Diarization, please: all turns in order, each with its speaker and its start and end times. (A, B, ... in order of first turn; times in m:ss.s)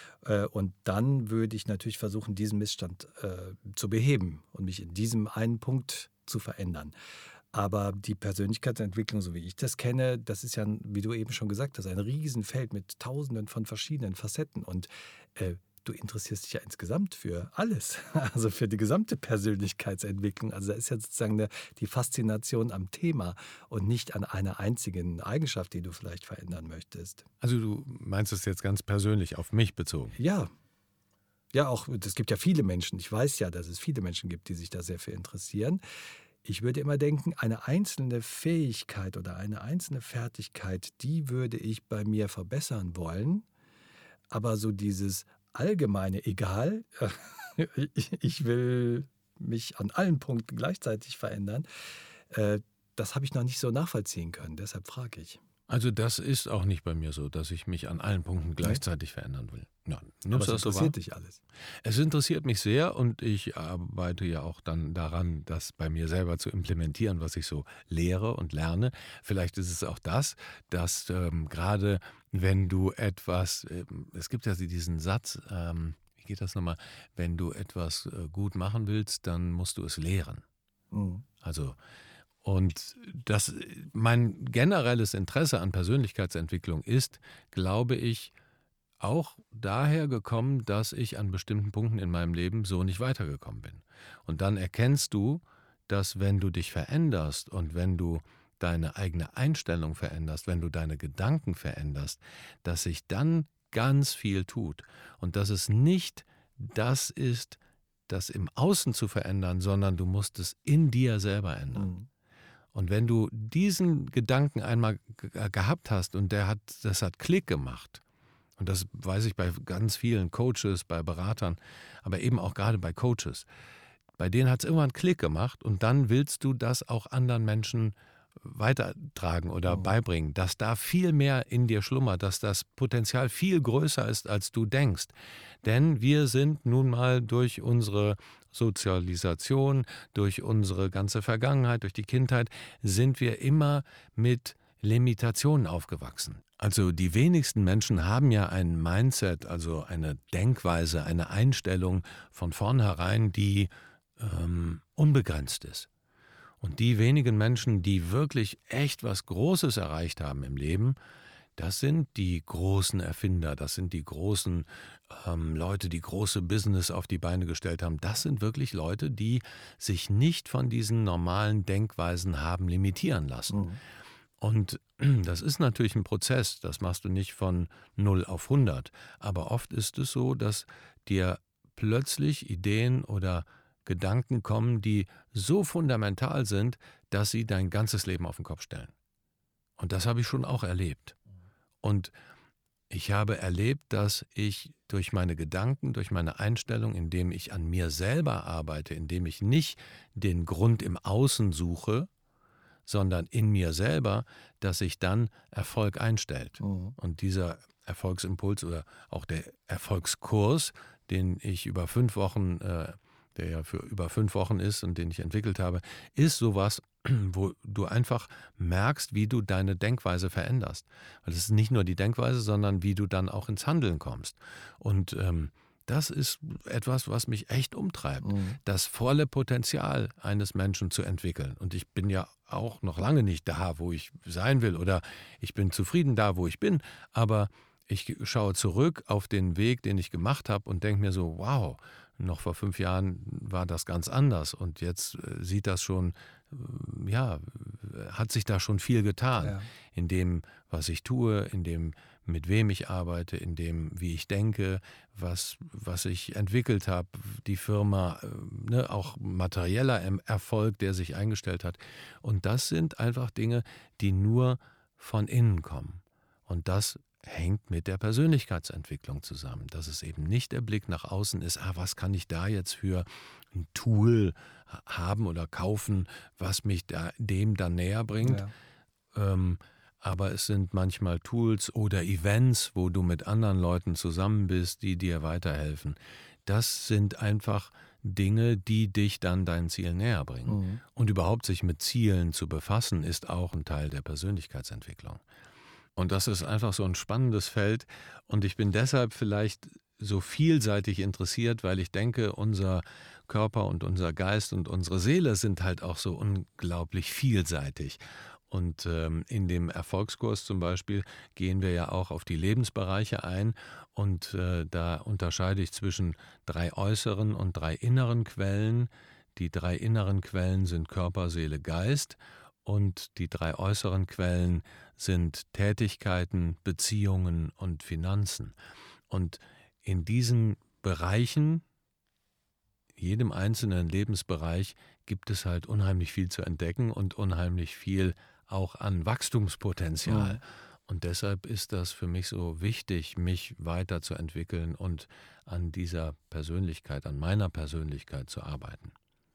0:00.2-0:07.0 A
0:07.5-0:27.2 A
0:27.4-0:30.2 B
0:30.2-0:30.5 A
0:31.5-0:35.8 A
0:36.4-0:43.4 A
0:44.3-0:51.7 A
0:52.3-0:55.4 A
0:55.7-1:01.0 B
1:00.3-1:01.4 A
1:01.8-1:20.4 B
1:20.9-1:21.2 A
1:21.4-1:21.8 B
1:22.4-1:28.3 B
1:29.0-1:51.9 B
1:51.8-1:52.1 A
1:52.7-1:58.0 B
1:58.6-2:03.5 B
2:04.2-2:15.1 B
2:15.6-2:35.9 B
2:36.6-2:41.0 B
2:41.6-2:53.7 B
2:53.5-2:53.8 A
2:54.4-3:08.9 B
3:09.8-3:11.2 B
3:11.8-3:12.1 B
3:12.9-3:22.1 B
3:22.9-4:38.4 B
3:26.6-3:27.0 A
3:48.2-3:48.6 A
4:09.4-4:09.7 A
4:38.2-4:38.5 A
4:39.1-4:55.2 B
4:50.5-4:50.8 A
4:56.0-5:28.5 B
5:29.1-5:31.6 B
5:33.0-5:48.9 B
5:40.1-5:40.4 A